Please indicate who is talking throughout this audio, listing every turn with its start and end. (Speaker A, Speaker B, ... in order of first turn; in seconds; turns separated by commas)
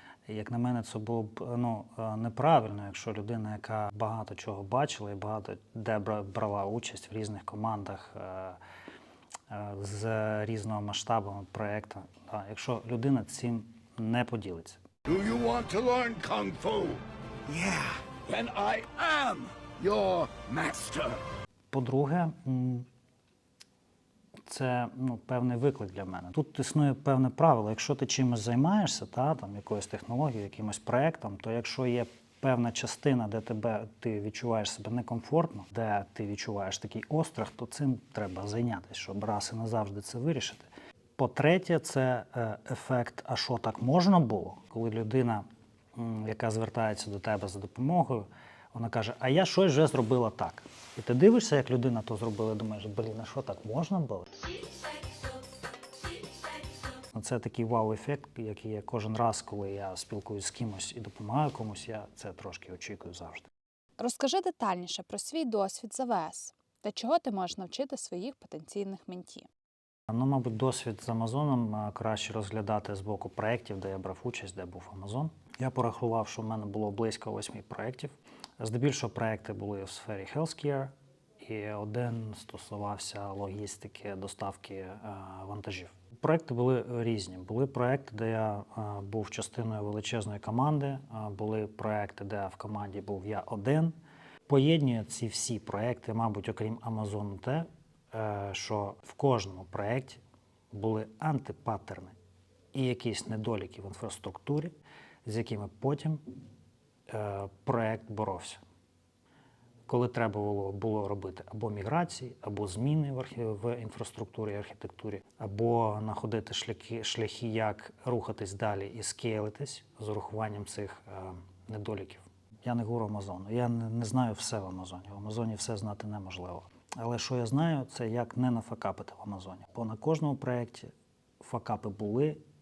Speaker A: 0.3-8.6, Speaker A: 9.5-14.8, Speaker B: 15.1-21.2, Speaker A: 21.7-22.9, Speaker A: 24.5-54.5, Speaker C: 54.5-55.4, Speaker C: 55.9-56.9, Speaker A: 57.0-63.5, Speaker C: 64.0-69.5, Speaker A: 70.1-93.9, Speaker A: 94.5-100.2, Speaker A: 100.7-102.2, Speaker A: 102.7-104.7, Speaker A: 105.2-106.2, Speaker A: 107.1-108.6, Speaker A: 109.9-130.9, Speaker A: 131.4-132.4